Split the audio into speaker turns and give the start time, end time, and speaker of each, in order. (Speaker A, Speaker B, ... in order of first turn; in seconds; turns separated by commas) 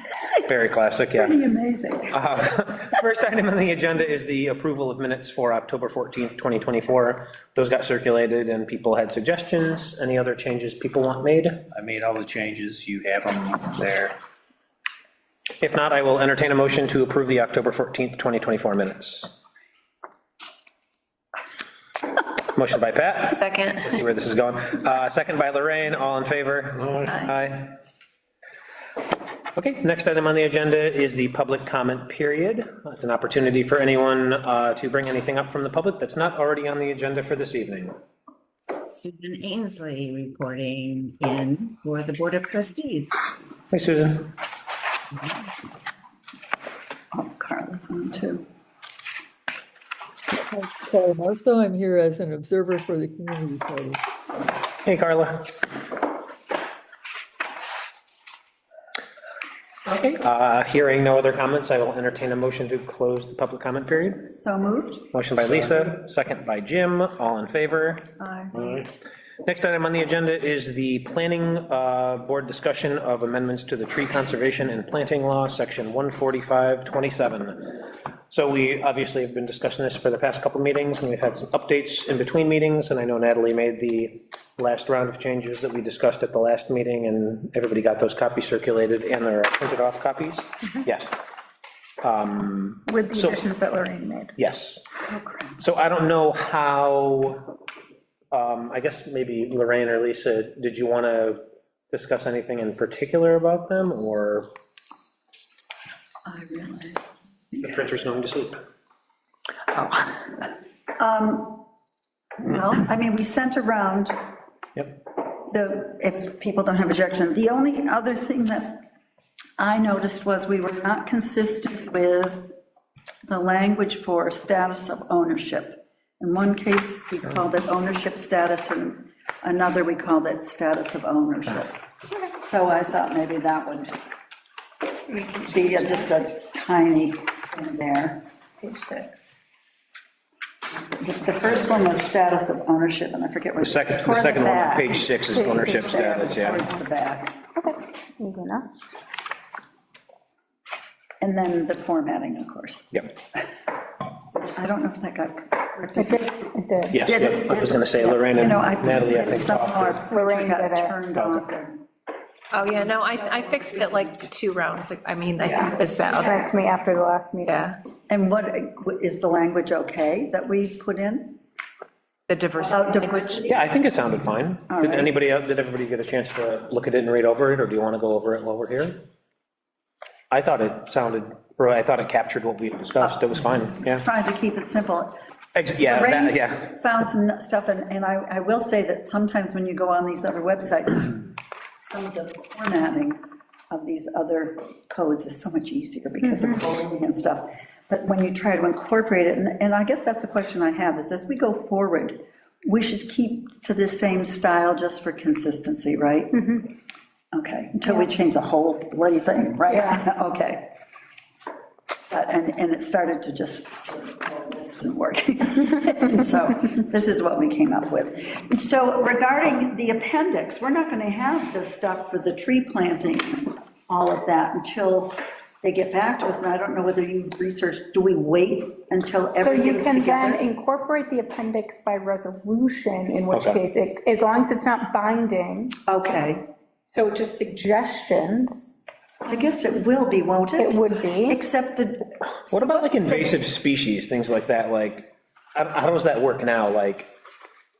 Speaker A: 0.4-1.4, Speaker B: 1.1-2.2, Speaker A: 2.1-11.6, Speaker C: 11.7-14.1, Speaker A: 15.6-19.3, Speaker A: 22.5-27.7, Speaker D: 23.3-23.8, Speaker A: 29.5-38.0, Speaker E: 38.9-43.2, Speaker A: 43.7-44.3, Speaker B: 47.1-48.5, Speaker F: 50.4-54.0, Speaker A: 54.8-55.5, Speaker A: 59.9-64.2, Speaker B: 64.3-65.1, Speaker A: 65.1-68.0, Speaker B: 68.2-68.6, Speaker A: 69.4-77.8, Speaker A: 78.3-91.2, Speaker A: 92.0-93.4, Speaker G: 92.9-94.3, Speaker A: 94.4-94.9, Speaker B: 95.1-95.6, Speaker A: 95.6-97.4, Speaker A: 98.3-104.5, Speaker B: 106.2-107.7, Speaker A: 107.6-108.6, Speaker B: 111.0-111.6, Speaker B: 112.4-114.1, Speaker B: 115.5-118.8, Speaker B: 119.6-122.5, Speaker B: 123.2-131.7, Speaker B: 132.3-134.0, Speaker G: 135.1-135.4, Speaker B: 135.4-138.2, Speaker B: 141.0-147.4, Speaker A: 143.6-146.6, Speaker G: 145.3-145.9, Speaker G: 147.5-148.7, Speaker B: 151.2-153.4, Speaker B: 154.5-161.8, Speaker G: 155.9-157.0, Speaker A: 156.9-160.0, Speaker G: 160.1-160.9, Speaker A: 161.1-161.4, Speaker D: 162.5-166.5, Speaker G: 165.4-167.6, Speaker D: 167.4-167.8, Speaker B: 168.1-171.4, Speaker D: 172.3-173.4, Speaker B: 172.6-173.7, Speaker A: 173.4-179.0, Speaker B: 174.7-175.1, Speaker A: 180.3-184.0, Speaker B: 183.0-185.1, Speaker A: 185.5-186.7, Speaker B: 185.8-206.6, Speaker G: 196.2-196.5, Speaker B: 207.3-210.7, Speaker G: 209.7-210.0, Speaker B: 212.1-230.4, Speaker G: 229.4-235.8, Speaker A: 233.3-233.6, Speaker B: 235.8-236.4, Speaker G: 236.9-238.8, Speaker B: 239.2-243.3, Speaker G: 240.6-241.4, Speaker A: 242.5-247.1